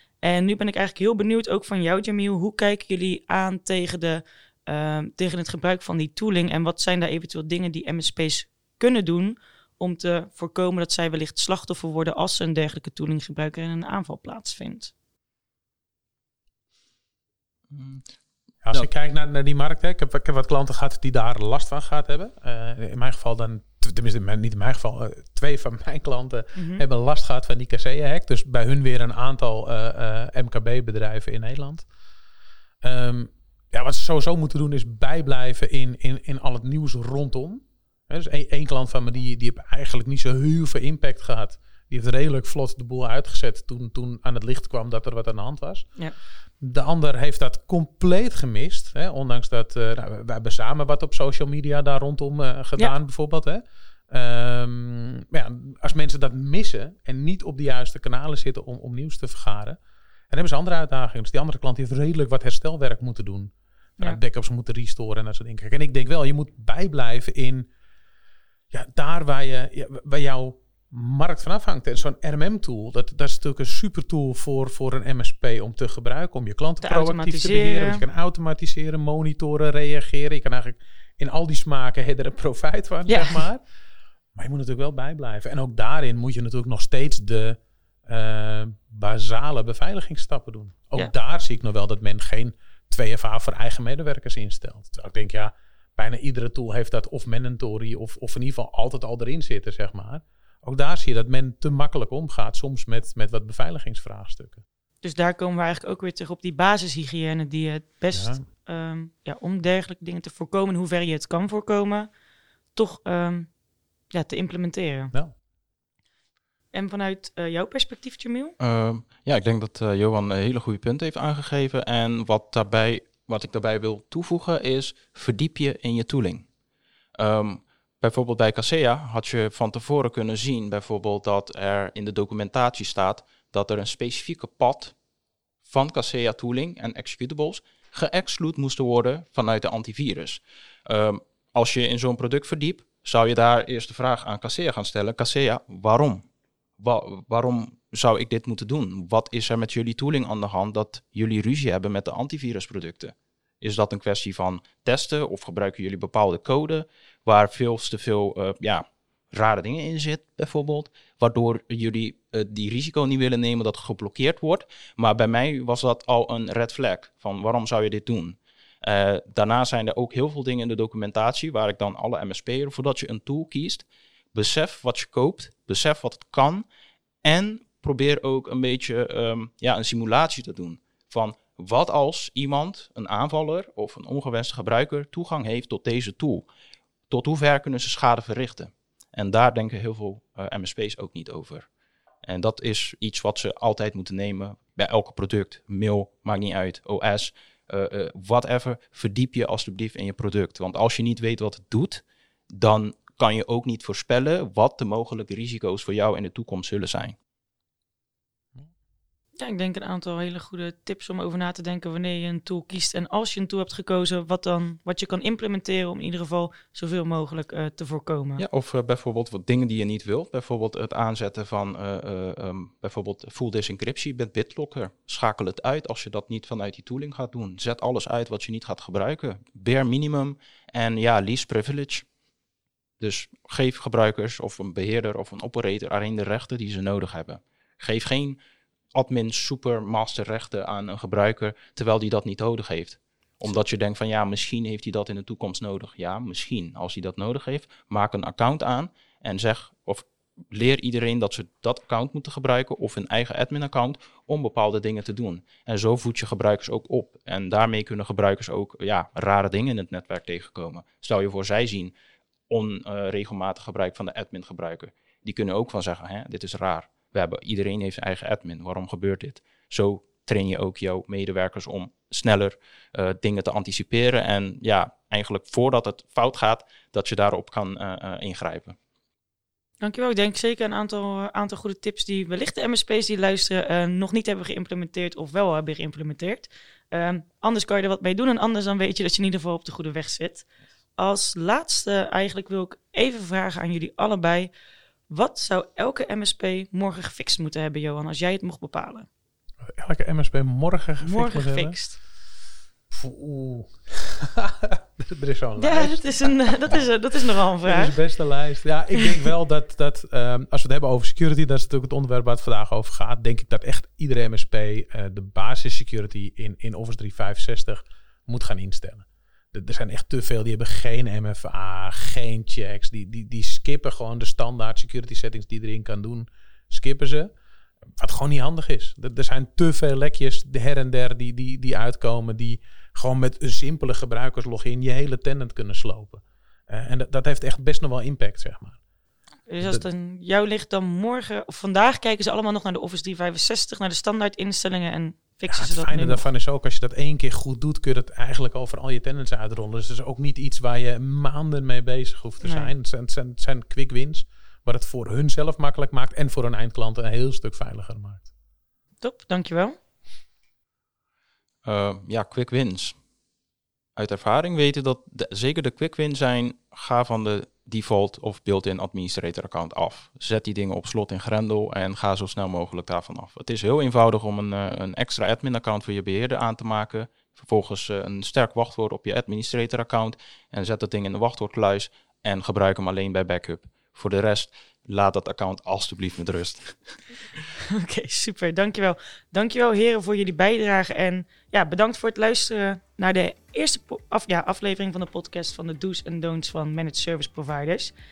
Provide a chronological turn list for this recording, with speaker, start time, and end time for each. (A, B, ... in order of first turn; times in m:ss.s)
0:00.2-0:14.9 A
0:17.7-0:18.0 B
0:18.6-0:31.9 C
0:26.5-0:26.8 A
0:32.8-0:45.9 C
0:46.6-0:59.8 C
1:00.3-1:07.7 C
1:08.7-1:23.6 C
1:16.8-1:18.0 A
1:23.1-1:23.4 A
1:24.4-1:44.6 C
1:45.0-1:52.1 A
1:48.1-1:48.4 C
1:52.8-1:53.5 A
1:54.1-1:55.1 A
1:56.7-1:58.6 A
1:58.6-2:06.5 B
2:07.2-2:15.0 B
2:15.6-2:26.2 B
2:26.8-2:56.6 B
2:57.2-3:06.4 B
3:07.1-3:11.7 B
3:12.2-3:27.2 B
3:29.4-3:38.4 A
3:38.4-3:52.0 B
3:53.0-3:58.4 B
3:58.9-4:21.9 B
4:22.5-4:38.8 B
4:39.8-4:50.5 A
4:51.0-4:54.5 A
4:55.1-4:59.1 A
4:59.6-5:01.8 C
5:01.0-5:02.0 A
5:02.9-5:06.8 C
5:05.6-5:08.0 A
5:07.6-5:27.3 C
5:27.9-5:38.8 C
5:39.5-5:46.2 A
5:45.5-5:58.3 C
5:52.4-5:52.7 A
5:59.0-5:59.8 A
6:01.6-6:03.0 B
6:04.0-6:27.0 B
6:27.7-6:37.9 A